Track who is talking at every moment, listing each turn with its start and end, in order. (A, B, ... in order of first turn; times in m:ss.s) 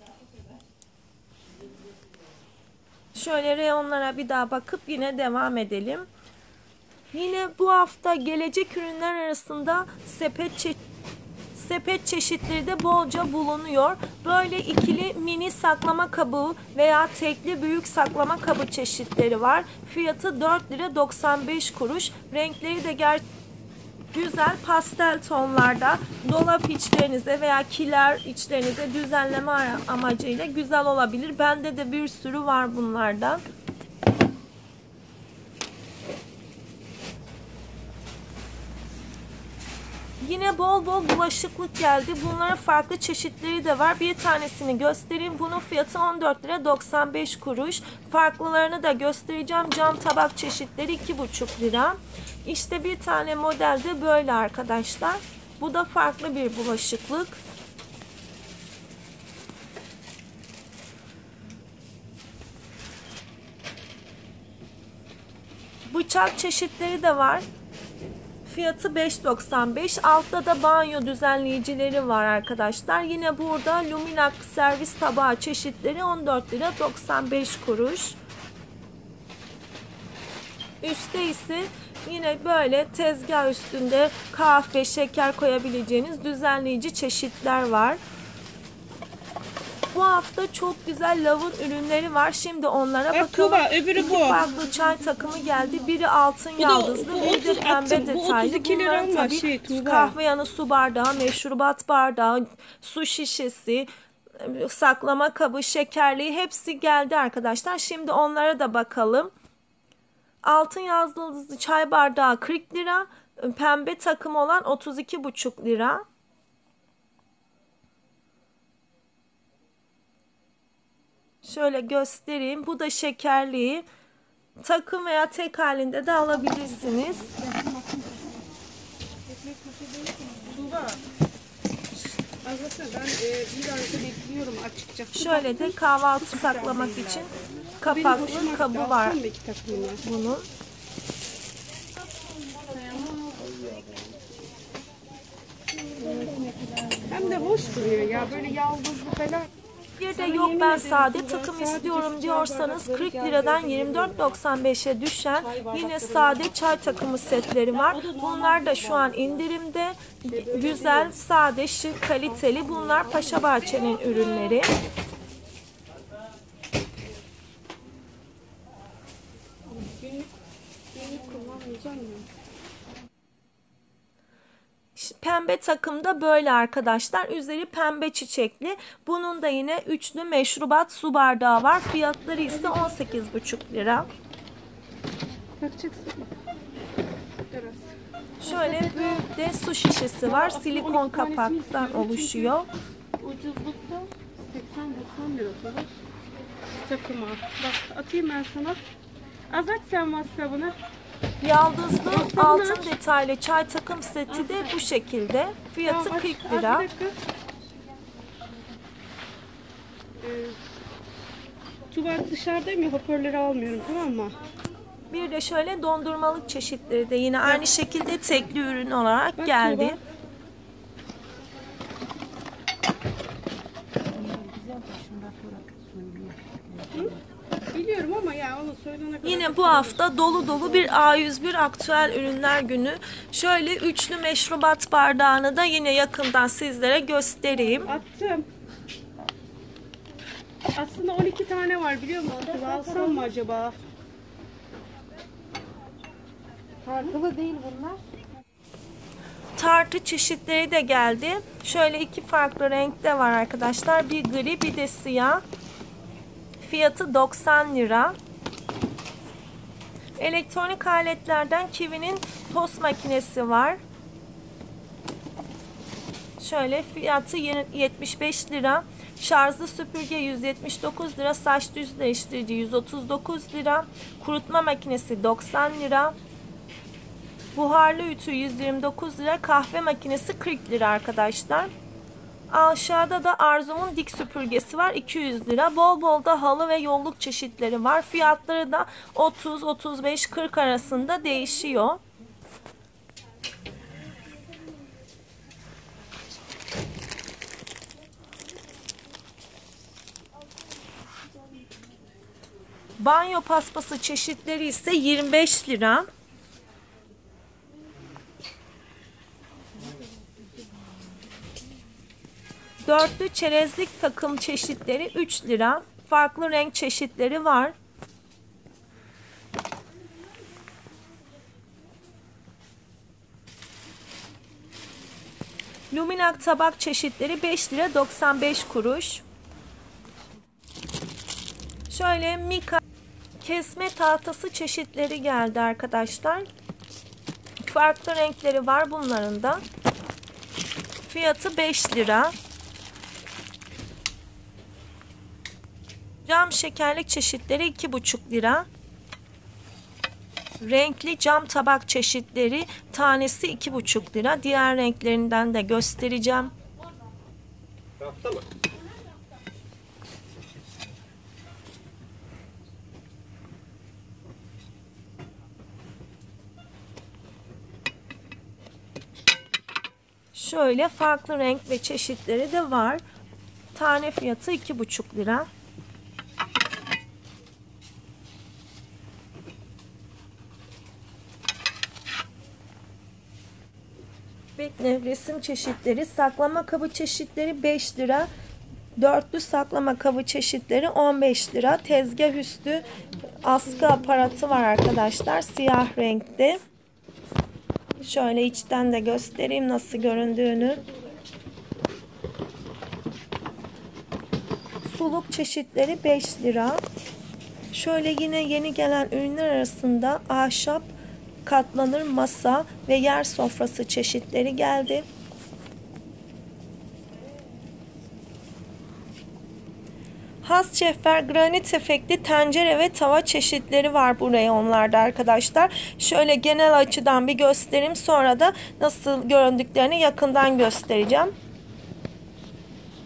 0:03.2-0:06.1 A
0:07.1-0:10.8 A
0:11.5-0:23.2 A
0:24.1-0:33.4 A
0:40.2-0:57.4 A
1:05.9-1:07.5 A
1:08.4-1:18.2 A
1:20.8-1:28.0 A
1:29.9-1:49.3 A
1:33.1-1:34.5 B
1:36.6-1:40.2 B
1:50.4-1:56.0 A
2:01.4-2:03.8 A
2:04.6-2:07.3 A
2:09.4-2:11.0 B
2:12.4-2:17.3 B
2:15.1-2:19.2 A
2:17.8-2:20.0 B
2:20.0-2:20.5 A
2:26.0-2:29.5 B
2:30.0-2:44.7 A
2:30.1-2:34.3 B
2:35.4-2:36.8 B
2:37.7-2:39.4 B
2:40.3-2:41.2 B
2:42.5-2:43.4 B
2:49.7-2:50.3 B
2:50.9-2:52.3 B
2:55.0-3:04.1 A
3:05.6-3:06.3 B
3:07.5-3:09.2 B
3:08.4-3:12.7 A
3:10.2-3:12.6 B
3:13.2-3:16.0 B
3:16.8-3:18.8 B
3:19.5-3:20.8 B
3:21.4-3:26.9 A
3:22.1-3:23.0 B
3:25.8-3:27.2 B
3:30.2-3:30.6 B
3:31.9-3:34.4 B
3:35.1-3:40.0 A
3:39.4-3:40.0 B
3:44.2-3:47.0 C
3:46.9-3:47.2 B
3:47.7-3:51.0 B
3:49.2-3:57.9 A
3:57.9-3:58.5 B
4:00.7-4:03.8 B
4:06.9-4:07.3 B
4:07.3-4:08.0 C
4:09.6-4:15.4 A
4:16.6-4:18.2 A
4:20.2-4:23.8 A
4:26.4-4:36.2 A
4:37.6-4:41.7 A
4:42.5-4:52.0 A
5:03.0-5:06.1 A
5:12.8-5:17.8 A
5:25.9-5:29.2 A
5:31.9-5:32.8 A
5:33.4-5:36.5 A
5:37.6-5:39.6 A
5:41.1-5:42.4 A
5:46.2-5:48.7 A
5:50.6-5:56.5 A
6:10.3-6:13.0 A
6:13.7-6:15.5 A
6:24.6-6:28.3 A
6:29.0-6:32.9 A
6:33.4-6:36.6 A
6:38.0-6:40.9 A
6:44.8-6:46.8 A
6:47.7-6:50.9 A
6:51.4-6:55.1 A
7:00.4-7:11.3 A